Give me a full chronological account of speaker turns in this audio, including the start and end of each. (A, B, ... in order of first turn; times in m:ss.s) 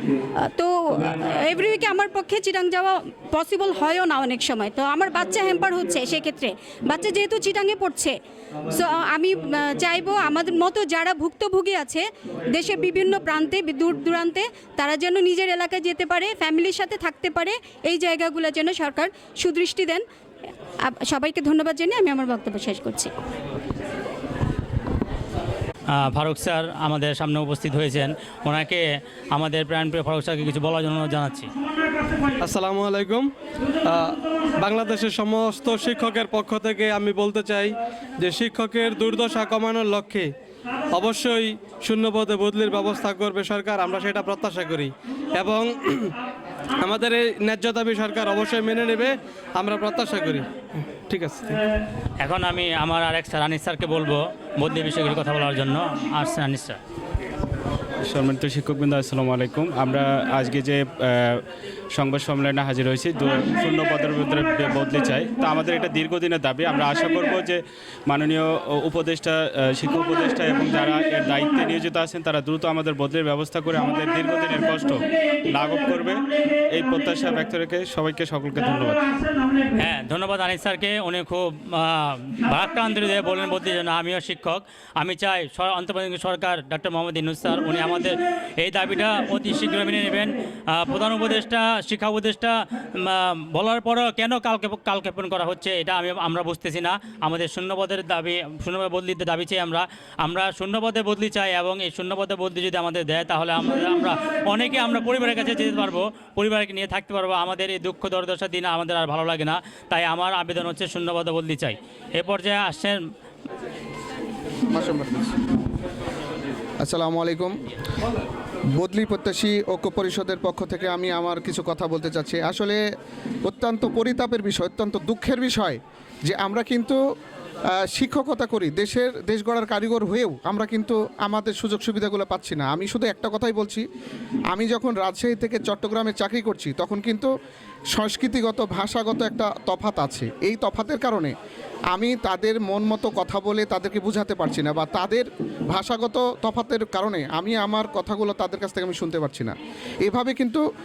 0:00.4-0:20.0 A
0:20.8-0:23.1 A
0:25.9-0:31.5 B
0:32.4-0:33.3 C
0:34.6-0:40.3 C
0:40.9-0:46.1 C
0:46.8-0:50.5 C
0:51.1-0:51.5 C
0:52.2-0:56.8 B
0:58.0-1:19.2 D
1:19.8-1:53.0 B
1:54.7-1:55.4 E
1:56.8-1:57.6 E
1:58.8-2:02.8 E
2:03.4-2:07.0 E
2:07.8-2:13.8 E
2:14.5-2:17.3 E
2:17.9-2:21.3 E
2:21.9-2:30.6 E